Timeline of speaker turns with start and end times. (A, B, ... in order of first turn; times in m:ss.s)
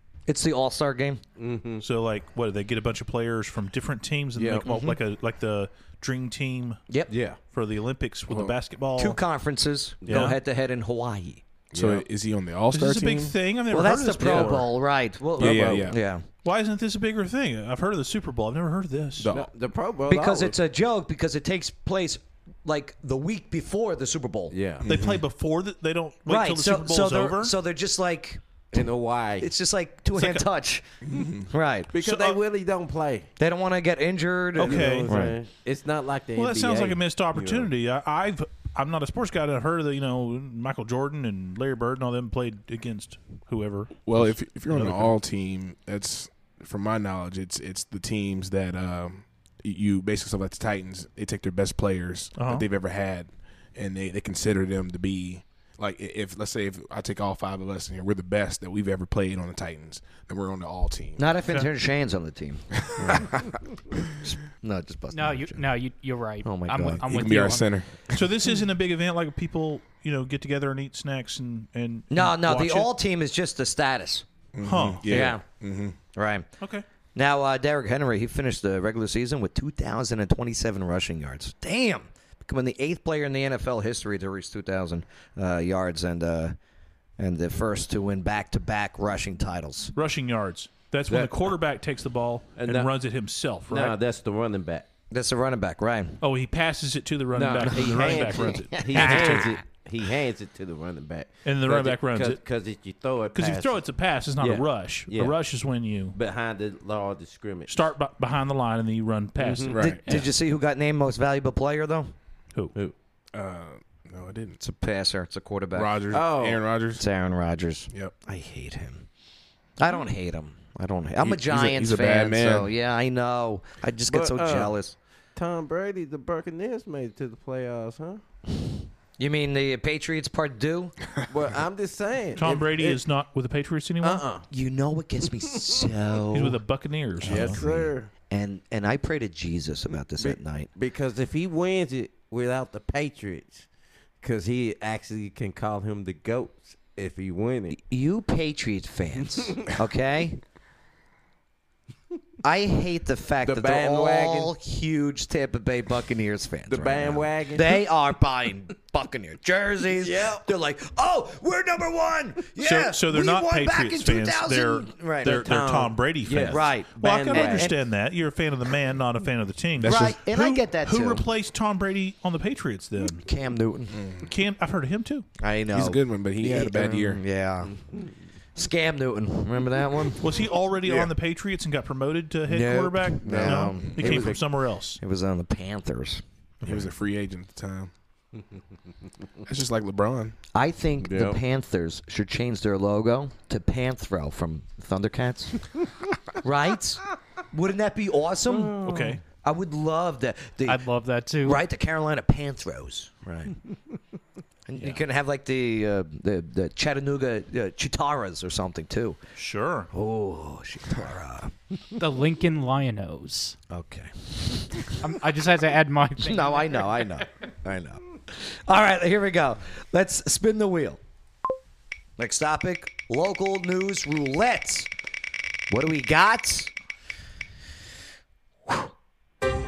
0:00.3-0:01.2 A
0:01.4-0:01.8 B
0:01.8-0:06.8 C
0:04.3-0:04.7 B
0:04.7-0:05.0 A
0:07.1-0:07.4 B
0:07.5-0:09.2 C
0:08.3-0:08.5 D
0:09.0-0:11.4 A
0:10.0-0:10.3 B
0:10.1-0:10.4 C
0:11.7-0:13.4 D
0:11.7-0:12.0 B
0:12.7-0:14.7 C
0:13.7-0:16.2 A
0:14.2-0:14.7 B
0:15.4-0:16.0 D
0:15.4-0:15.9 B
0:16.4-0:19.3 C
0:19.2-0:19.5 D
0:19.3-0:20.6 B
0:20.1-0:24.5 A
0:24.5-0:24.8 B
0:24.8-0:25.2 D
0:24.8-0:27.5 C
0:26.2-0:28.8 A
0:28.7-0:29.5 B
0:29.4-0:30.8 A
0:30.2-0:30.4 C
0:31.0-0:31.5 D
0:31.5-0:31.9 A
0:31.9-0:33.3 B
0:32.0-0:32.4 C
0:33.4-0:35.3 A
0:34.6-0:35.2 C
0:34.6-0:37.7 B
0:36.3-0:45.1 C
0:44.0-1:01.2 D
0:52.4-0:52.6 C
1:01.2-1:03.3 A
1:03.0-1:03.5 D
1:04.2-1:05.6 A
1:05.1-1:07.8 E
1:06.4-1:07.0 A
1:07.0-1:07.9 D
1:08.1-1:12.9 C
1:12.1-1:14.2 A
1:14.5-1:16.0 D
1:14.6-1:15.2 C
1:15.1-1:15.4 A
1:16.1-1:16.4 A
1:16.6-1:16.8 C
1:17.1-1:26.6 A
1:27.2-1:29.9 A
1:29.9-1:34.0 C
1:31.1-1:31.3 B
1:32.6-1:32.9 B
1:33.7-1:34.9 B
1:35.1-1:36.2 A
1:36.2-1:39.5 C
1:37.3-1:43.8 B
1:37.7-1:39.6 A
1:41.4-1:42.4 C
1:43.3-1:46.2 C
1:44.4-1:45.4 B
1:46.1-1:47.8 B
1:47.7-1:49.8 C
1:49.4-1:50.2 B
1:49.7-1:50.1 D
1:49.8-1:52.1 A
1:53.3-1:54.6 D
1:54.6-1:55.9 A
1:55.7-1:57.0 D
1:56.1-1:56.6 B
1:57.0-1:59.0 A
1:59.8-2:04.9 A
2:01.2-2:02.7 D
2:04.1-2:04.7 B
2:05.4-2:08.2 B
2:09.2-2:10.9 A
2:11.3-2:13.0 B
2:12.4-2:14.2 C
2:14.0-2:14.5 B
2:14.5-2:16.6 A
2:16.3-2:17.6 C
2:17.2-2:18.1 B
2:17.2-2:17.8 A
2:18.3-2:20.7 A
2:20.2-2:23.7 B
2:24.2-2:27.8 B
2:27.7-2:30.4 A
2:32.4-2:45.5 A
2:33.4-2:34.5 B
2:36.7-2:37.8 B
2:39.9-2:40.4 B
2:42.6-2:53.2 C
2:45.2-2:47.7 B
2:46.5-2:47.8 A
2:49.8-2:51.2 A
2:53.2-2:54.0 A
2:53.9-2:54.2 D
2:54.2-2:55.2 C
2:55.4-2:57.7 A
2:55.7-2:57.2 D
2:58.5-3:00.2 A
3:00.2-3:05.0 C
3:02.4-3:04.4 A
3:03.2-3:04.2 D
3:03.3-3:04.4 B
3:05.0-3:06.2 A
3:06.6-3:06.9 C
3:06.6-3:07.9 D
3:09.4-3:10.3 D
3:10.5-3:15.6 A
3:11.0-3:11.4 B
3:16.4-3:17.0 A
3:17.5-3:18.8 A
3:18.4-3:19.2 B
3:18.8-3:19.2 C
3:19.4-3:20.8 A
3:20.6-3:21.6 E
3:21.4-3:23.5 A
3:24.7-3:29.2 A
3:29.4-3:29.9 C
3:29.9-3:31.5 A
3:32.0-3:33.6 E
3:33.7-3:34.9 A
3:35.0-3:37.0 E
3:36.2-3:41.0 A
3:42.2-3:44.9 A
3:45.7-3:46.7 A